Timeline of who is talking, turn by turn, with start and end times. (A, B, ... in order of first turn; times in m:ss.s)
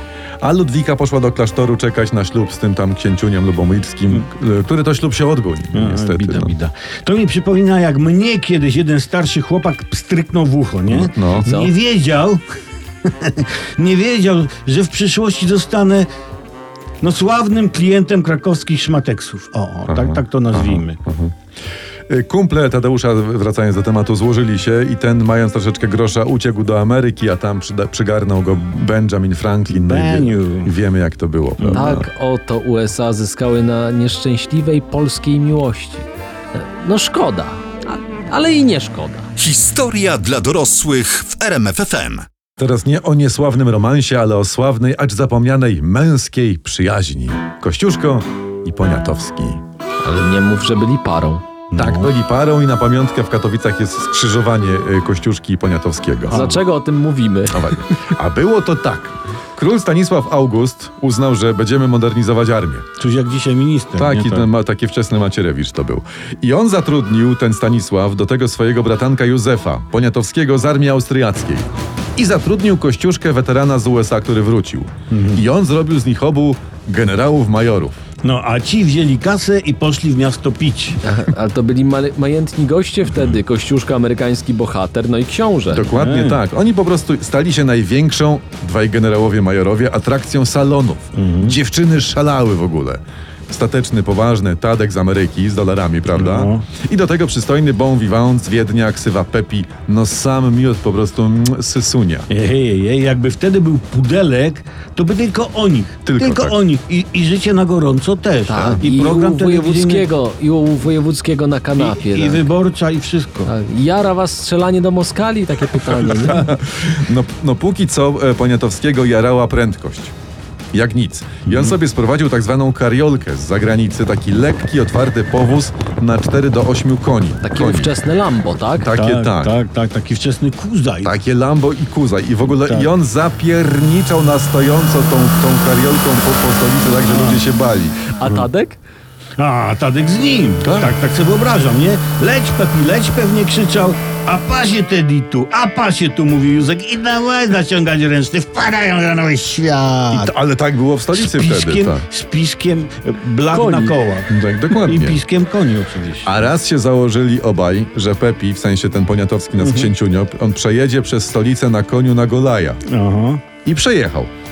0:00.4-0:06.5 A
0:05.7-0:12.4 B
0:10.9-0:11.5 A
0:11.4-0:11.7 C
0:13.0-0:16.1 B
0:17.0-0:21.0 B
0:19.9-0:21.3 A
0:22.1-0:32.0 A
0:29.7-0:30.7 B
0:31.6-0:32.0 B
0:31.7-0:37.6 C
0:38.3-0:39.3 C
0:39.4-0:42.2 D
0:42.6-0:49.6 A
0:50.0-0:51.4 C
0:51.7-0:52.1 B
0:51.7-0:56.4 A
0:56.3-0:56.6 B
0:56.3-0:57.6 C
0:57.5-1:02.8 A
1:03.0-1:04.5 B
1:04.0-1:18.0 A
1:15.1-1:15.4 B
1:18.2-1:21.0 B
1:21.0-1:25.8 C
1:25.7-1:42.3 A
1:25.9-1:26.4 B
1:31.2-1:31.5 B
1:36.2-1:36.6 B
1:42.3-1:50.1 B
1:46.0-1:46.5 A
1:48.4-1:52.5 C
1:51.8-1:53.5 B
1:53.4-1:56.4 C
1:56.2-2:00.1 A
2:00.7-2:07.9 A
2:01.4-2:01.8 B
2:07.4-2:08.9 C
2:08.8-2:09.5 A
2:08.9-2:11.1 B
2:11.0-2:18.0 A
2:17.0-2:17.4 B
2:18.1-2:18.8 C
2:19.4-2:30.3 B
2:20.6-2:20.9 A
2:30.1-2:32.0 A
2:31.1-2:36.3 B
2:33.5-2:34.0 C
2:34.3-2:35.2 A
2:36.2-2:42.8 A
2:39.6-2:39.9 B
2:42.9-2:43.4 B
2:43.6-2:44.3 A